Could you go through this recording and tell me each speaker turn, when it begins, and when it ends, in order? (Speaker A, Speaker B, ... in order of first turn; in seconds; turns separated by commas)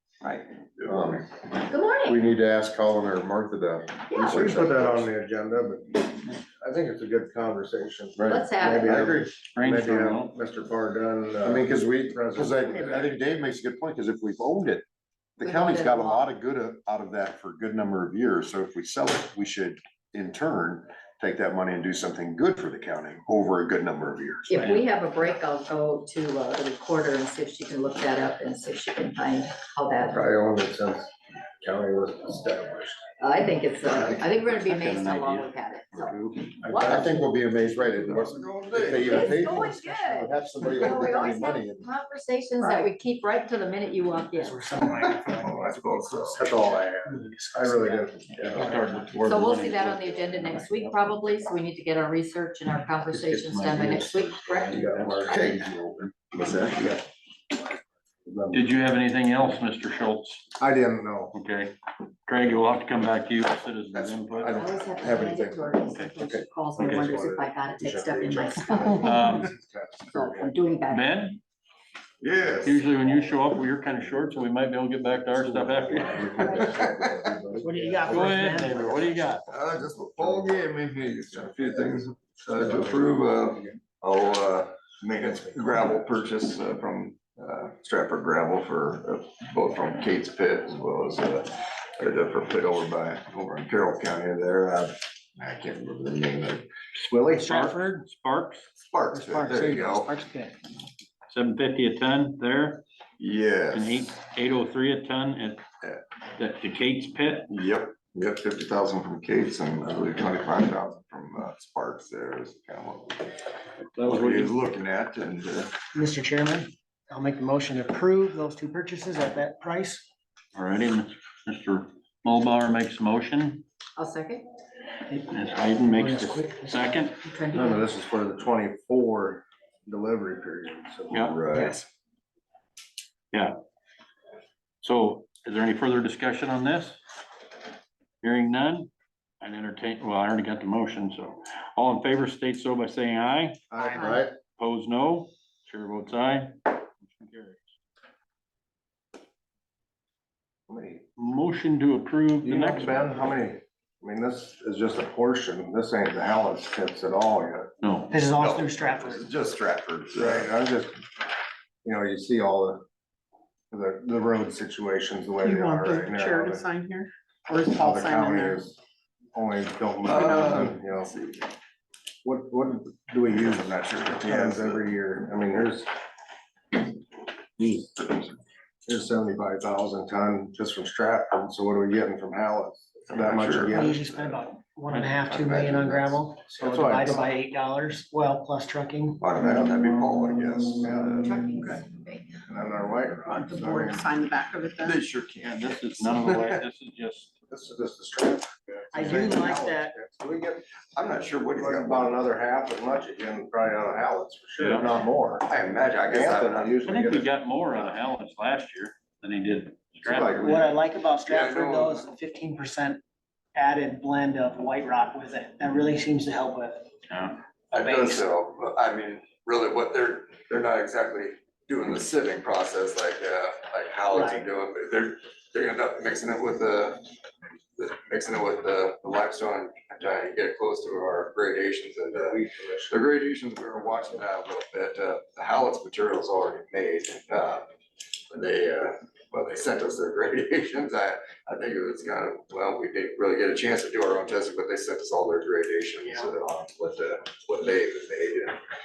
Speaker A: 0.2-1.2, Speaker B: 0.8-1.3, Speaker C: 1.7-2.2, Speaker B: 2.0-5.1, Speaker C: 4.1-4.6, Speaker D: 4.2-13.1, Speaker B: 8.2-9.2, Speaker C: 8.3-9.0, Speaker E: 9.5-10.3, Speaker B: 11.4-14.8, Speaker B: 15.4-24.8, Speaker C: 15.4-16.3, Speaker C: 24.5-30.2, Speaker D: 30.1-33.0, Speaker C: 33.2-37.3, Speaker E: 33.9-36.6, Speaker D: 36.6-37.1, Speaker B: 36.8-41.9, Speaker A: 38.0-39.6, Speaker D: 38.8-39.1, Speaker C: 39.0-44.7, Speaker F: 44.4-48.1, Speaker A: 44.8-46.4, Speaker D: 46.4-48.8, Speaker E: 48.5-51.0, Speaker C: 49.2-54.9, Speaker B: 54.6-56.7, Speaker D: 54.7-55.6, Speaker A: 56.4-56.8, Speaker D: 58.2-58.7, Speaker E: 58.5-60.5, Speaker D: 60.6-61.4, Speaker E: 61.3-61.8, Speaker E: 62.3-64.6, Speaker A: 63.9-64.6, Speaker B: 64.4-65.8, Speaker C: 64.5-69.2, Speaker D: 66.2-70.6, Speaker E: 66.8-67.1, Speaker E: 69.0-69.5, Speaker C: 70.1-71.2, Speaker E: 70.9-71.4, Speaker A: 72.2-72.8, Speaker E: 72.6-76.5, Speaker D: 75.3-78.5, Speaker C: 76.3-76.8, Speaker A: 76.5-77.3, Speaker F: 77.6-79.4, Speaker E: 78.1-79.4, Speaker A: 79.5-96.7, Speaker D: 80.2-80.6, Speaker D: 82.6-83.0, Speaker D: 85.2-86.0, Speaker D: 97.1-97.3, Speaker E: 97.2-98.7, Speaker F: 97.4-97.9, Speaker A: 98.8-100.2, Speaker F: 99.1-100.6, Speaker E: 101.3-102.8, Speaker A: 103.2-104.1, Speaker E: 103.7-105.6, Speaker E: 106.4-107.5, Speaker A: 107.5-113.4, Speaker E: 114.0-114.5, Speaker A: 114.0-115.7, Speaker F: 115.9-120.0, Speaker E: 120.5-123.6, Speaker C: 124.0-124.5, Speaker E: 125.2-127.2, Speaker F: 125.9-127.1, Speaker C: 127.2-127.8, Speaker D: 127.5-131.5, Speaker E: 131.1-131.4, Speaker A: 131.5-131.8, Speaker F: 131.5-131.8, Speaker E: 134.8-137.0, Speaker E: 138.2-138.9, Speaker E: 139.4-143.7, Speaker D: 143.7-144.3, Speaker F: 143.8-144.2, Speaker E: 144.6-147.7, Speaker D: 150.7-151.1, Speaker E: 151.2-153.1, Speaker D: 152.4-157.7, Speaker E: 157.8-158.2, Speaker F: 158.1-159.3, Speaker A: 158.3-160.5, Speaker D: 160.1-160.9, Speaker D: 161.8-162.8, Speaker D: 163.7-166.7, Speaker G: 165.4-168.7, Speaker D: 167.7-168.8, Speaker D: 169.3-171.1, Speaker A: 170.0-171.5, Speaker D: 172.2-175.9, Speaker A: 173.3-174.8, Speaker A: 177.6-178.3, Speaker D: 178.9-184.0, Speaker A: 183.1-184.4, Speaker F: 183.7-189.2, Speaker E: 184.9-185.8, Speaker A: 185.3-186.2, Speaker D: 186.5-187.2, Speaker A: 189.2-191.8, Speaker D: 190.8-191.3, Speaker C: 191.2-192.4, Speaker D: 192.5-194.1, Speaker G: 193.3-195.0, Speaker A: 194.8-196.6, Speaker E: 195.5-197.3, Speaker D: 197.5-200.6, Speaker F: 198.9-199.9, Speaker A: 200.9-202.3, Speaker D: 201.5-205.5, Speaker E: 204.6-204.9, Speaker A: 205.4-206.8, Speaker D: 206.0-207.3, Speaker E: 206.8-210.5, Speaker D: 210.1-210.5, Speaker A: 210.1-212.1, Speaker F: 210.4-213.0, Speaker F: 213.6-216.9, Speaker E: 217.1-217.4, Speaker A: 217.7-227.1, Speaker F: 217.8-218.2, Speaker F: 224.1-224.5, Speaker A: 227.8-237.7, Speaker D: 232.1-233.0, Speaker A: 238.3-248.6